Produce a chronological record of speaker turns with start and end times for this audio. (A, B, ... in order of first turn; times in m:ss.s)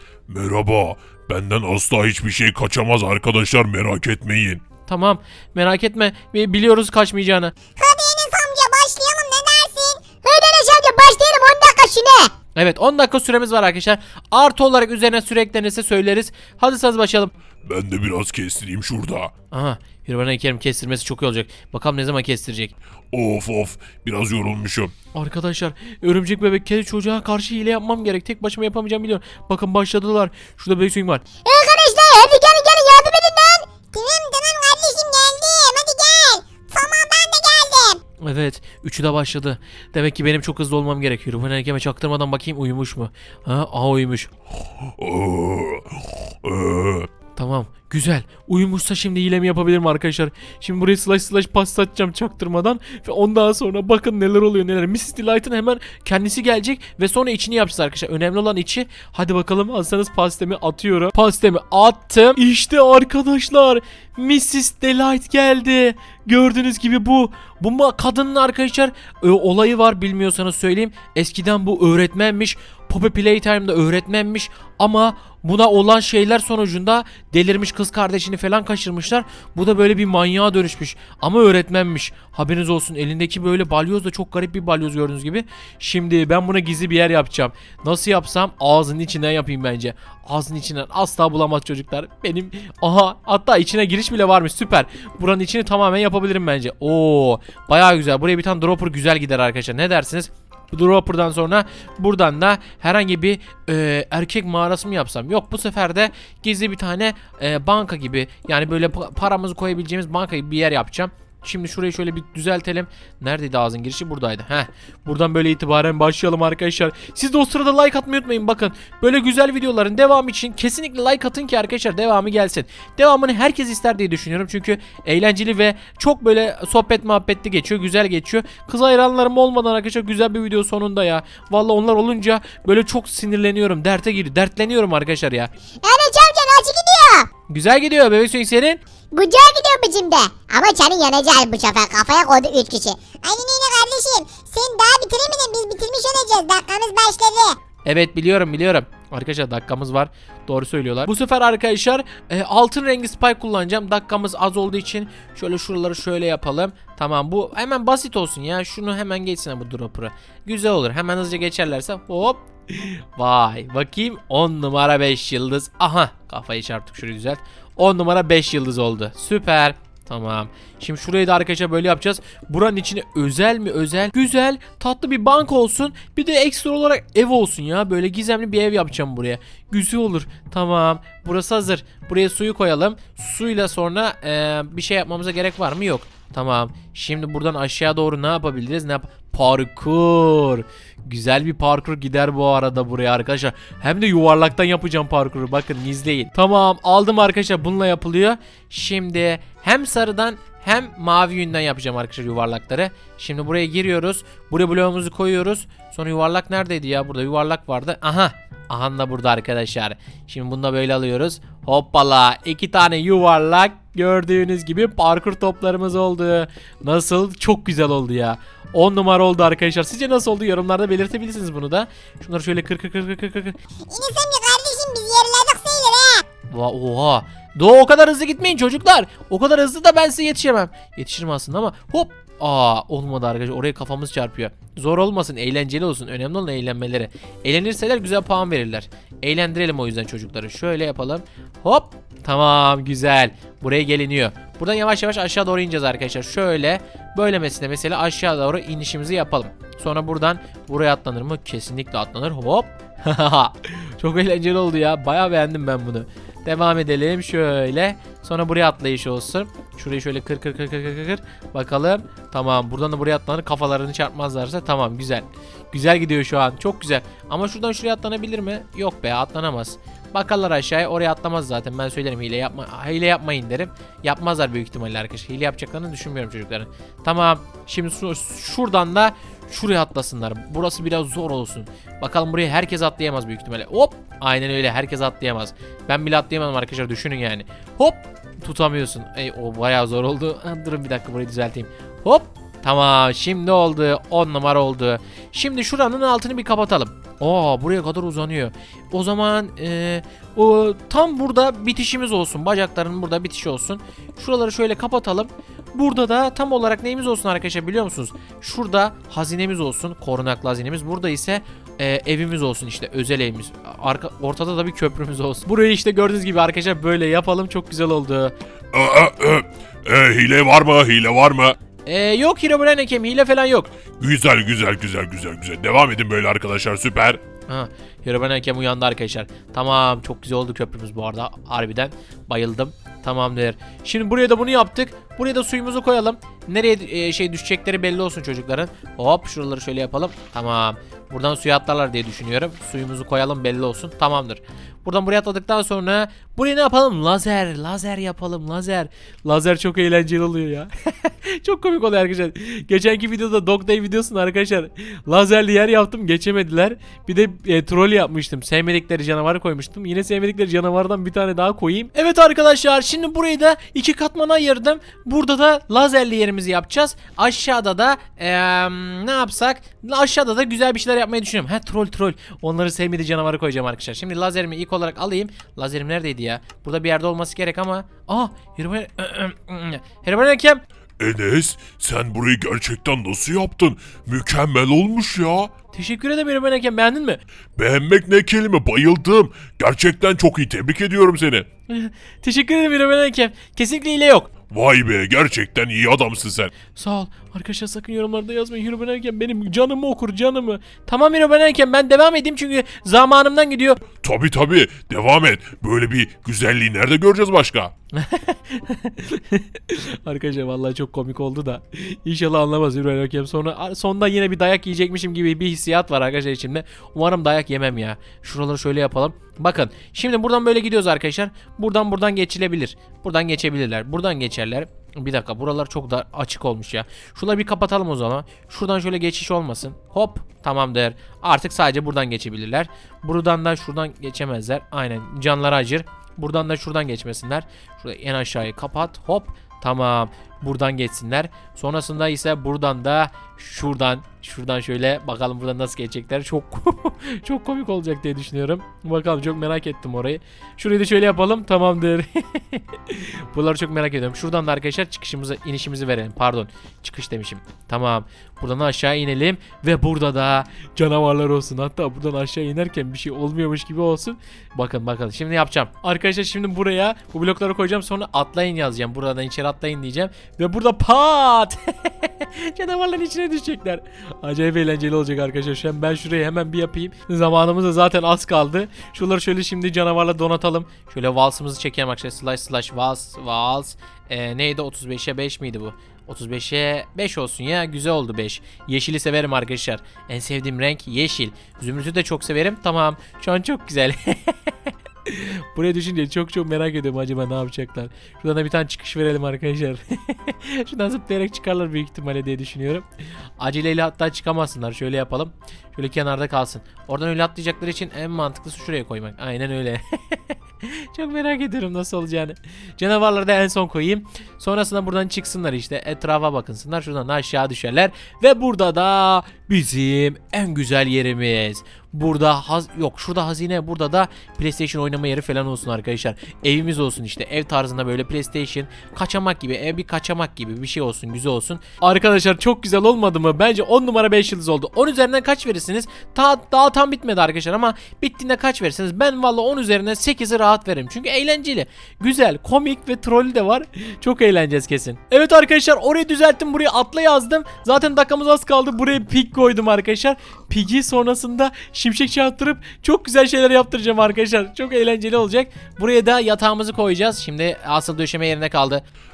0:00.3-0:04.6 A
0:04.8-0:07.5 B
0:07.8-0:12.3 C
0:12.6-0:17.3 B
0:17.6-0:19.3 A
0:19.5-0:22.7 B
0:23.1-0:24.9 A
0:25.1-0:31.2 B
0:31.4-0:38.0 C
0:38.2-0:44.3 B
0:45.0-0:47.1 A
0:47.4-2:15.5 B
2:15.8-2:17.3 C
2:17.5-2:18.8 B
2:19.1-2:27.6 C
2:27.8-3:43.6 B
3:43.9-3:46.2 C
3:46.5-5:18.3 B
5:18.7-5:21.6 A
5:21.8-5:23.7 B
5:24.0-5:27.2 A
5:27.5-6:20.6 B
6:21.0-6:25.5 A
6:25.7-6:27.2 B
6:27.6-6:31.5 A
6:31.7-6:34.3 B
6:34.5-6:36.5 A
6:36.7-6:43.8 B
6:44.0-6:47.7 A
6:47.9-8:14.3 B
8:15.0-8:22.8 B
8:23.4-9:18.8 B